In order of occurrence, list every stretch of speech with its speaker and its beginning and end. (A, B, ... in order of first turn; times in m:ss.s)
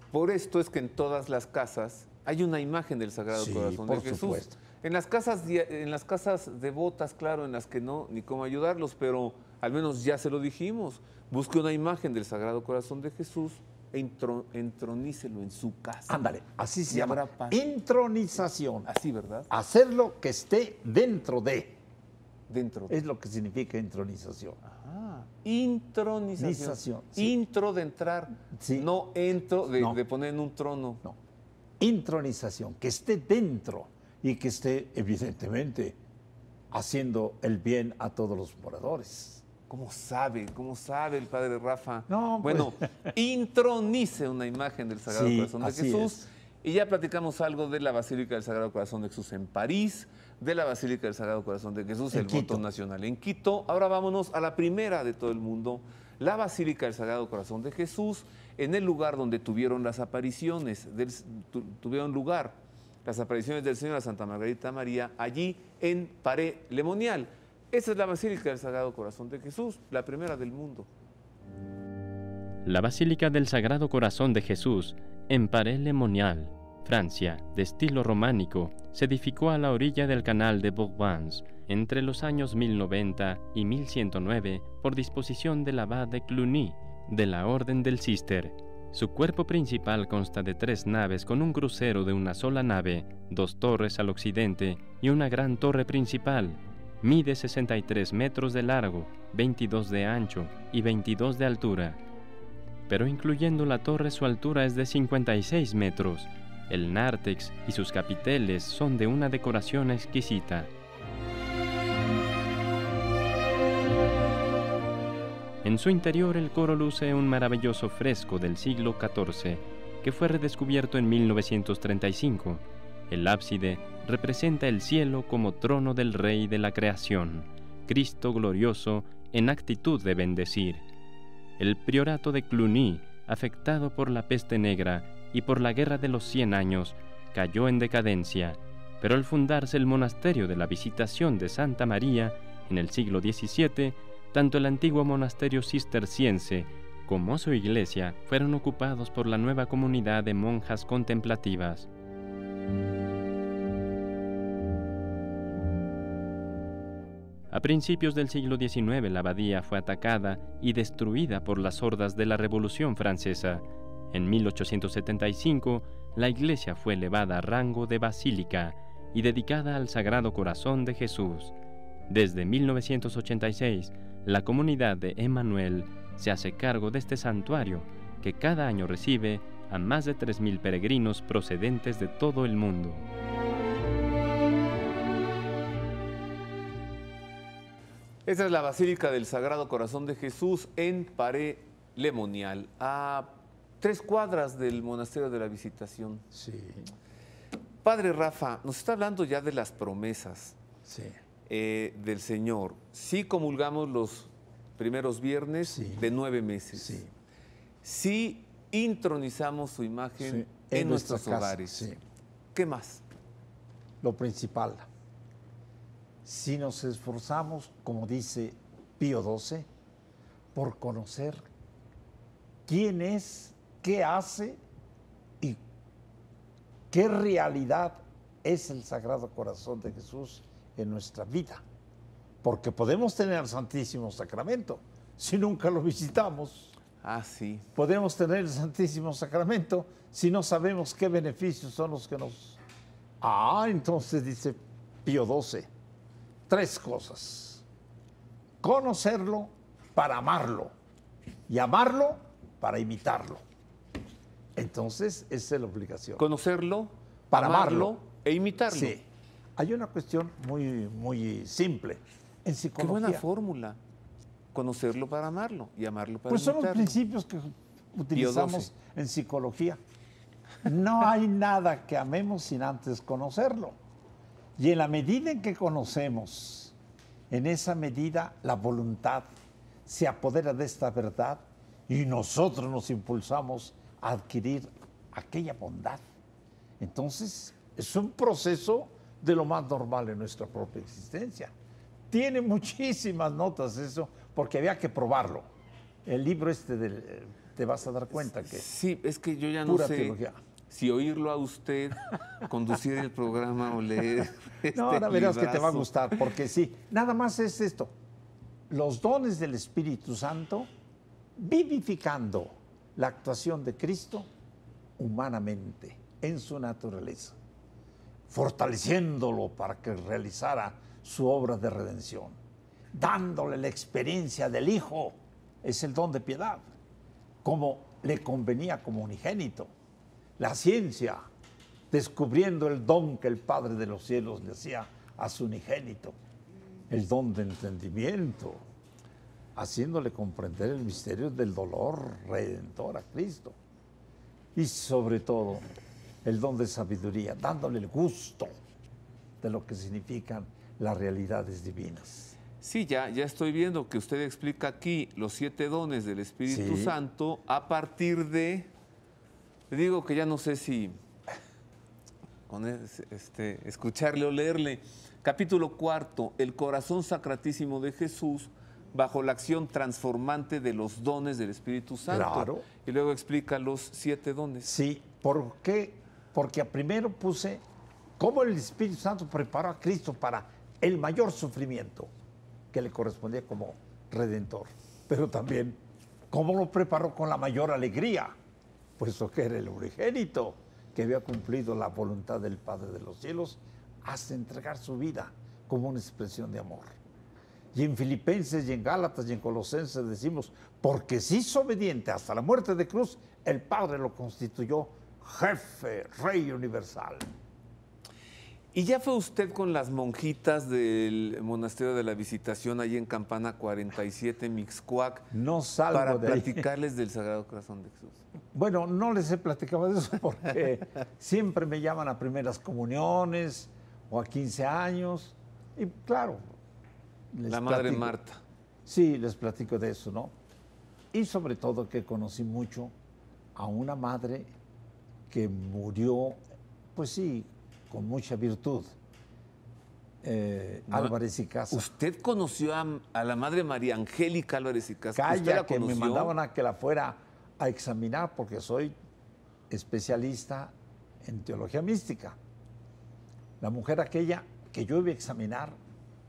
0:00.1-0:16.2 A
0:03.3-0:04.6 B
0:16.1-0:18.9 B
0:16.9-0:17.6 A
0:18.8-0:19.5 A
0:19.5-0:21.8 B
0:22.5-0:23.0 A
0:22.9-0:24.6 B
0:24.6-0:31.0 A
0:26.4-0:27.3 B
0:28.5-0:28.9 B
0:31.8-0:36.0 B
0:36.7-0:39.4 B
0:39.7-1:10.9 A
0:42.1-0:42.9 B
0:45.1-0:46.3 B
0:52.1-0:52.6 B
1:12.6-1:42.0 C
1:42.9-1:50.7 C
1:55.6-2:10.8 C
2:11.6-2:31.9 C
2:37.5-2:51.5 C
2:52.1-3:03.0 C
3:08.2-3:16.2 A
3:16.3-3:16.9 B
3:17.8-3:20.6 A
3:20.8-3:21.2 B
3:21.5-3:27.0 A
3:25.7-3:26.1 B
3:26.7-3:27.1 B
3:27.8-3:31.9 A
3:30.2-3:32.0 B
3:32.5-3:33.0 A
3:34.0-3:34.9 B
3:36.2-3:39.7 B
3:40.5-3:41.4 B
3:42.7-3:44.6 B
3:46.9-3:51.6 B
3:52.4-3:56.7 B
3:57.0-3:57.6 A
3:57.7-4:02.6 B
4:03.2-4:05.7 B
4:06.5-4:07.6 B
4:08.6-4:10.7 B
4:11.5-4:13.4 B
4:14.5-4:16.3 B
4:16.2-4:19.0 A
4:17.3-4:18.0 B
4:18.7-4:19.0 B
4:19.6-4:23.2 B
4:22.8-4:23.8 A
4:24.5-4:27.0 A
4:26.3-4:29.8 B
4:28.1-4:28.7 A
4:30.6-4:33.8 B
4:34.6-4:36.7 B
4:37.3-4:39.3 B
4:39.8-4:46.0 B
4:46.8-4:51.5 B
4:52.1-4:55.5 B
4:56.0-4:58.6 B
4:58.3-5:06.2 A
4:59.6-5:00.4 B
5:04.7-5:07.9 B
5:08.7-5:10.7 B
5:11.4-5:14.3 B
5:15.0-5:17.4 B
5:18.3-5:22.4 B
5:22.9-5:26.7 B
5:27.4-5:29.7 B
5:30.4-5:31.2 B
5:31.9-5:36.2 B
5:36.9-5:38.6 B
5:39.5-5:43.6 B
5:44.5-5:45.6 B
5:46.2-5:48.5 B
5:49.4-5:52.4 B
5:52.6-5:58.7 A
5:56.5-5:56.9 B
5:59.7-6:01.0 A
6:02.5-6:14.7 A
6:12.1-6:12.6 B
6:14.6-6:17.6 B
6:18.2-6:22.1 B
6:22.7-6:28.4 B
6:29.0-6:36.9 B
6:37.7-6:47.3 B
6:48.7-6:55.3 A
6:55.3-6:56.6 B
6:55.9-6:58.2 A
6:58.5-7:06.4 B
7:07.3-7:08.1 B
7:07.5-7:08.4 A
7:08.8-7:10.3 B
7:11.1-7:12.9 B
7:13.6-7:14.5 B
7:15.3-7:16.4 B
7:16.9-7:18.9 B
7:20.2-7:21.9 B
7:20.9-7:21.1 A
7:21.7-7:26.3 A
7:25.1-7:28.9 B
7:29.7-7:32.4 B
7:33.6-7:35.8 B